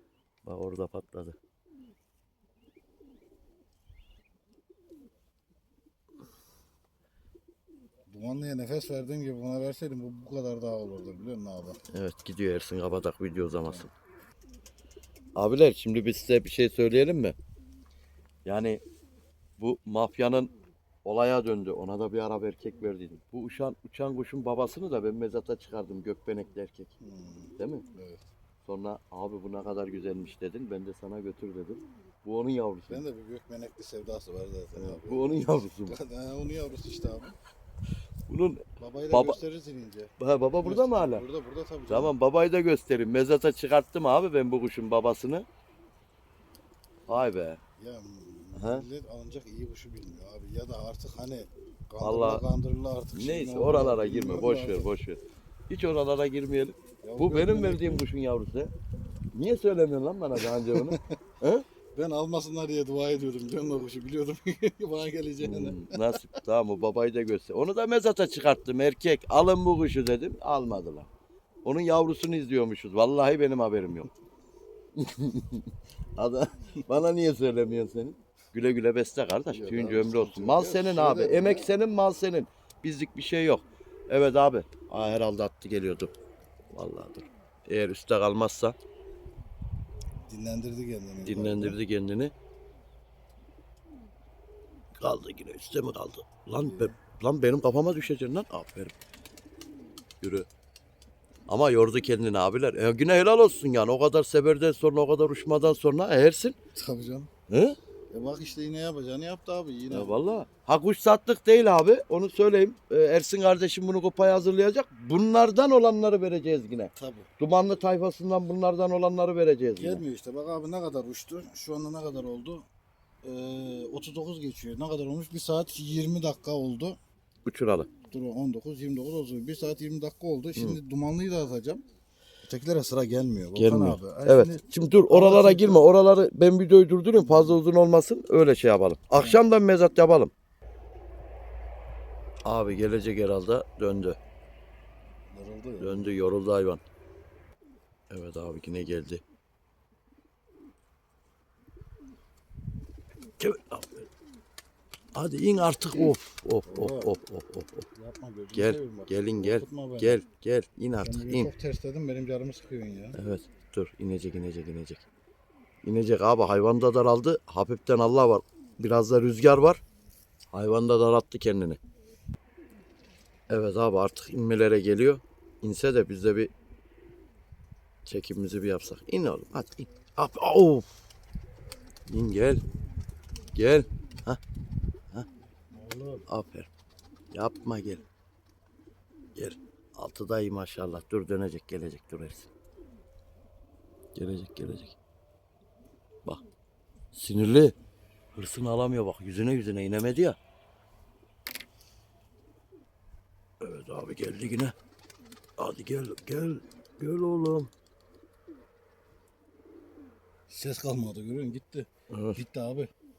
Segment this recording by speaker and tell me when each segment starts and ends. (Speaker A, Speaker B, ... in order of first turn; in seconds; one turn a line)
Speaker A: 0.5-1.4
Speaker B: 8.1-11.8
Speaker A: 11.9-13.9
Speaker A: 15.4-17.4
Speaker A: 18.5-18.8
Speaker A: 19.6-20.5
Speaker A: 21.1-26.9
Speaker B: 27.0-28.2
Speaker A: 27.6-27.9
Speaker A: 28.6-33.0
Speaker B: 32.9-37.4
Speaker A: 34.8-36.0
Speaker A: 38.3-39.4
Speaker B: 38.8-42.2
Speaker A: 40.2-41.2
Speaker A: 41.9-45.5
Speaker A: 47.1-47.6
Speaker B: 47.8-54.9
Speaker A: 48.6-48.9
Speaker A: 52.0-52.4
Speaker A: 53.1-58.7
Speaker B: 57.0-58.0
Speaker A: 59.3-61.6
Speaker B: 60.4-61.2
Speaker B: 62.0-66.2
Speaker A: 65.4-71.1
Speaker A: 71.7-74.1
Speaker A: 75.0-86.1
Speaker B: 79.5-81.7
Speaker A: 86.7-88.8
Speaker B: 90.2-91.8
Speaker A: 91.2-92.3
Speaker A: 95.0-98.9
Speaker B: 96.6-97.0
Speaker A: 100.2-100.5
Speaker A: 101.5-106.6
Speaker B: 106.7-107.3
Speaker A: 107.5-107.8
Speaker B: 108.1-110.1
Speaker A: 109.9-120.0
Speaker B: 117.0-117.3
Speaker B: 119.8-122.7
Speaker B: 123.2-127.0
Speaker A: 127.5-127.9
Speaker B: 128.1-131.8
Speaker B: 132.4-135.9
Speaker A: 133.6-140.3
Speaker B: 137.1-137.6
Speaker A: 142.4-144.2
Speaker B: 145.3-146.2
Speaker A: 145.8-146.8
Speaker A: 148.1-149.2
Speaker A: 153.4-154.1
Speaker A: 155.1-157.9
Speaker B: 156.7-157.1
Speaker B: 157.9-160.2
Speaker A: 158.5-161.5
Speaker B: 161.0-163.2
Speaker A: 163.2-165.1
Speaker A: 165.8-169.8
Speaker A: 170.5-171.8
Speaker A: 173.5-176.5
Speaker A: 178.1-180.9
Speaker A: 182.1-182.6
Speaker A: 183.5-184.4
Speaker B: 185.7-186.2
Speaker A: 186.3-186.7
Speaker A: 187.3-188.1
Speaker A: 189.4-192.5
Speaker A: 194.2-195.0
Speaker A: 197.1-197.8
Speaker A: 198.3-200.4
Speaker A: 203.6-204.7
Speaker A: 205.6-207.7
Speaker B: 210.5-212.9
Speaker A: 212.1-212.4